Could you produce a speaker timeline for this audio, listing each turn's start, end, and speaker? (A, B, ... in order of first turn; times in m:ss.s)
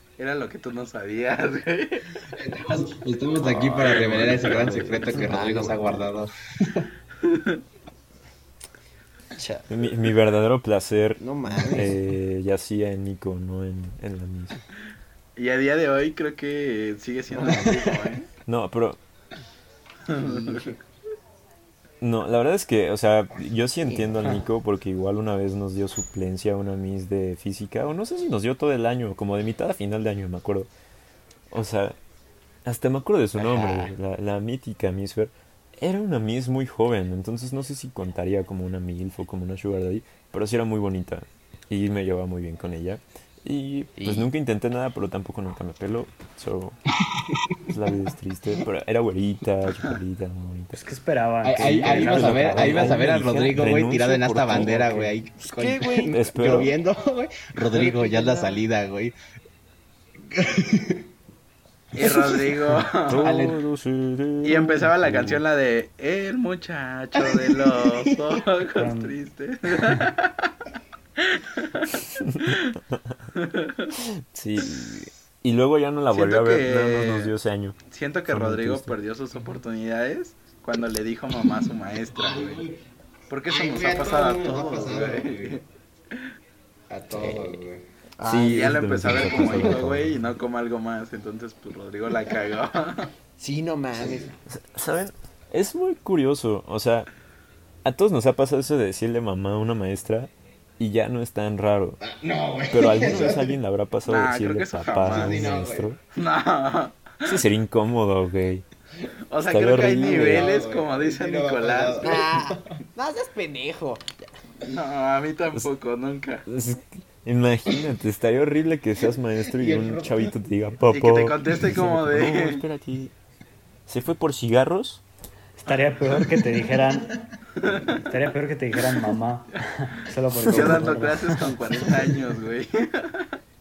0:00.2-0:02.0 A
0:02.3-0:06.9 B
0:03.7-0:04.8 A
0:04.6-0:05.9 C
0:07.2-0:07.6 A
0:09.3-0:09.6 C
0:09.7-0:14.6 D
0:11.2-0:12.0 C
0:15.4-0:18.3 A
0:17.5-0:17.9 B
0:18.4-0:19.0 D
0:20.1-0:20.8 A
0:20.2-0:20.8 C
0:22.0-0:30.7 D
0:23.8-0:24.3 C
0:31.5-0:32.0 D
0:32.6-0:46.8 D
0:33.4-0:33.9 C
0:44.0-0:44.3 C
0:47.1-0:47.6 B
0:47.7-0:50.8 D
0:50.7-0:53.1 E
0:51.4-0:59.1 B
0:51.6-0:55.1 D
0:55.4-0:56.6 C
0:56.1-0:56.7 D
0:57.7-0:58.6 C
1:00.3-1:01.0 B
1:01.9-1:03.4 A
1:02.0-1:03.6 B
1:03.1-1:05.4 D
1:04.4-1:10.5 A
1:07.2-1:08.4 B
1:08.7-1:09.2 E
1:11.2-1:12.7 A
1:12.2-1:13.2 D
1:13.3-1:13.9 A
1:14.0-1:17.8 D
1:16.1-1:17.3 A
1:17.9-1:22.6 A
1:18.3-1:18.9 D
1:22.1-1:22.8 B
1:23.3-1:25.6 A
1:23.5-1:25.6 B
1:26.9-1:27.8 B
1:27.1-1:27.6 C
1:28.2-1:29.6 C
1:28.2-1:30.2 D
1:28.5-1:33.1 A
1:29.3-1:29.7 B
1:33.4-1:34.3 C
1:34.5-1:37.1 D
1:37.8-1:42.0 D
1:42.0-1:43.6 B
1:42.7-1:46.0 D
1:44.0-1:45.6 A
1:45.0-1:45.9 B
1:46.1-1:47.3 A
1:47.2-1:48.6 D
1:49.3-1:52.2 A
1:49.4-1:50.5 D
1:49.9-1:52.8 B
1:52.0-1:54.1 C
1:54.6-1:56.4 A
1:56.4-2:03.1 D
1:59.4-2:00.3 B
2:00.9-2:02.6 A
2:03.9-2:05.0 D
2:05.6-2:07.1 E
2:07.6-2:08.0 A
2:07.9-2:11.6 E
2:10.4-2:13.3 A
2:11.7-2:12.2 B